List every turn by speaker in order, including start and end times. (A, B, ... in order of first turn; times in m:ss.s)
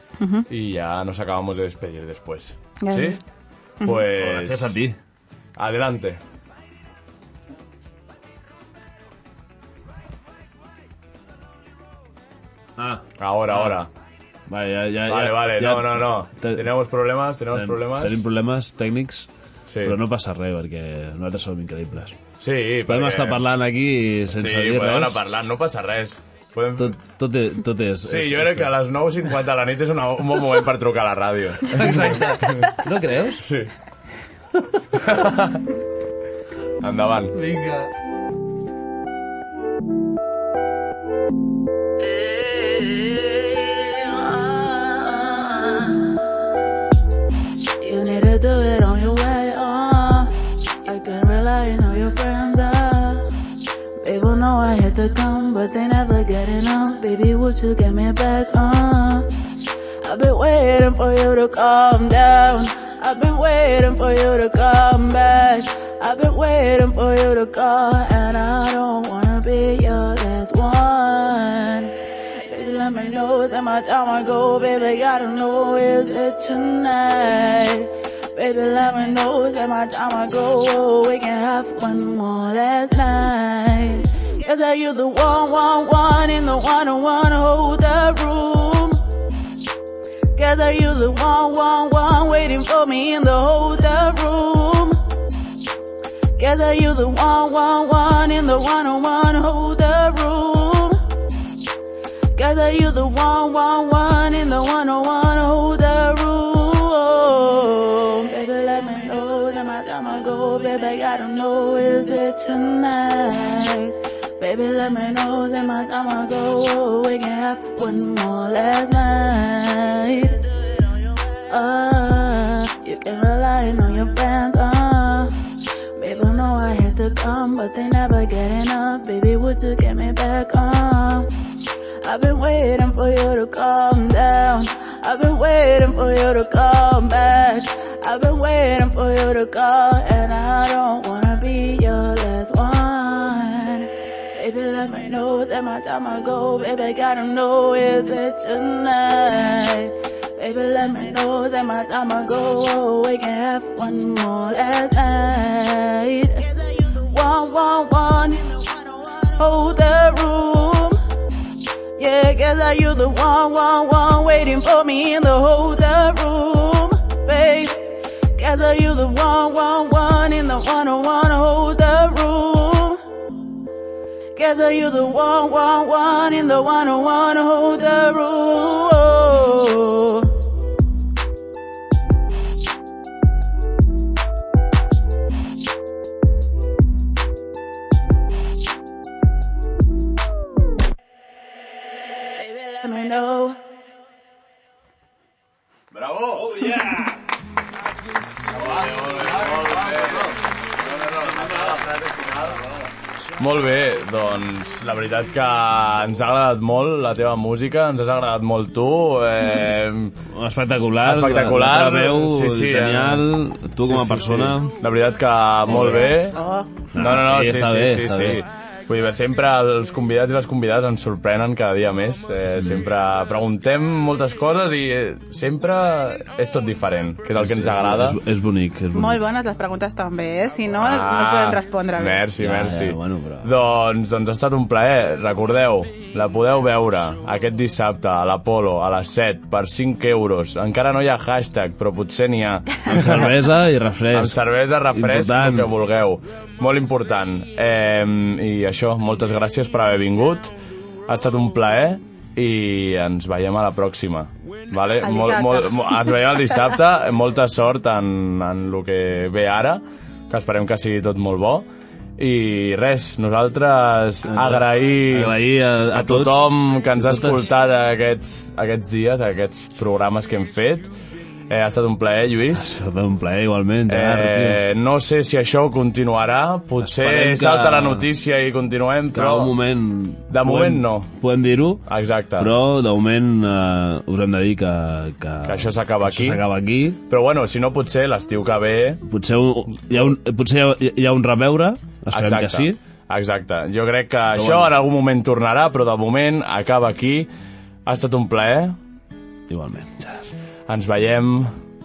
0:00.2-0:00.5 A
0:00.5-0:03.2 B
0:02.8-0:03.2 A
0:03.8-0:04.1 A
0:03.8-0:04.8 B
0:04.0-0:05.0 C
0:05.6-0:06.2 B
0:12.8-0:13.8 C
0:13.2-0:13.9 B
0:14.5-0:16.7 C
0:15.1-0:18.2 B
0:17.5-0:19.3 C
0:19.7-0:20.0 B
0:19.8-0:22.2 C
0:22.4-0:23.4 B
0:22.9-0:25.2 C
0:24.3-0:27.0 B
0:26.8-0:28.7 C
0:28.0-0:32.8 B
0:31.6-0:33.4 C
0:33.4-0:33.7 B
0:34.5-0:34.8 C
0:34.9-0:35.6 B
0:36.8-0:37.3 B
0:37.3-0:37.9 C
0:42.0-0:46.1 A
0:47.8-0:53.3 A
0:54.0-0:59.3 A
1:00.0-1:11.9 A
1:12.5-1:29.0 A
1:30.4-1:35.0 A
1:36.4-1:41.0 A
1:42.3-2:00.5 A
2:01.4-2:05.3 A
2:06.0-2:11.3 A
2:12.0-2:41.0 A
2:42.0-2:53.0 A
2:54.4-3:00.3 A
3:12.3-3:13.6 A
3:15.9-3:16.6 B
3:16.3-3:17.2 C
3:18.5-3:30.2 B
3:18.8-3:20.4 C
3:21.2-3:21.9 C
3:30.3-3:34.8 C
3:31.0-3:36.4 B
3:35.7-3:36.1 C
3:35.8-3:36.7 A
3:36.9-3:38.4 C
3:37.0-3:48.2 B
3:47.4-3:49.2 C
3:48.9-3:52.3 A
3:50.8-4:03.4 B
3:52.4-3:53.5 C
4:02.8-4:04.4 C
4:04.1-4:10.5 B
4:04.9-4:05.7 C
4:11.1-4:21.6 B
4:15.0-4:16.3 A
4:22.2-4:25.4 B
4:24.3-4:27.5 C
4:25.9-4:30.9 B
4:31.5-4:32.8 B
4:32.5-4:34.6 C
4:33.9-4:39.6 B
4:36.8-4:38.1 C
4:39.1-4:41.8 C
4:40.3-4:41.1 B
4:41.9-4:42.5 B
4:42.4-4:47.0 C
4:45.4-4:46.4 B
4:47.1-4:49.0 B
4:49.0-4:52.8 C
4:52.1-4:57.3 B
4:54.3-4:54.8 C
4:57.9-4:58.8 B
4:59.5-5:00.3 C
5:00.7-5:01.5 B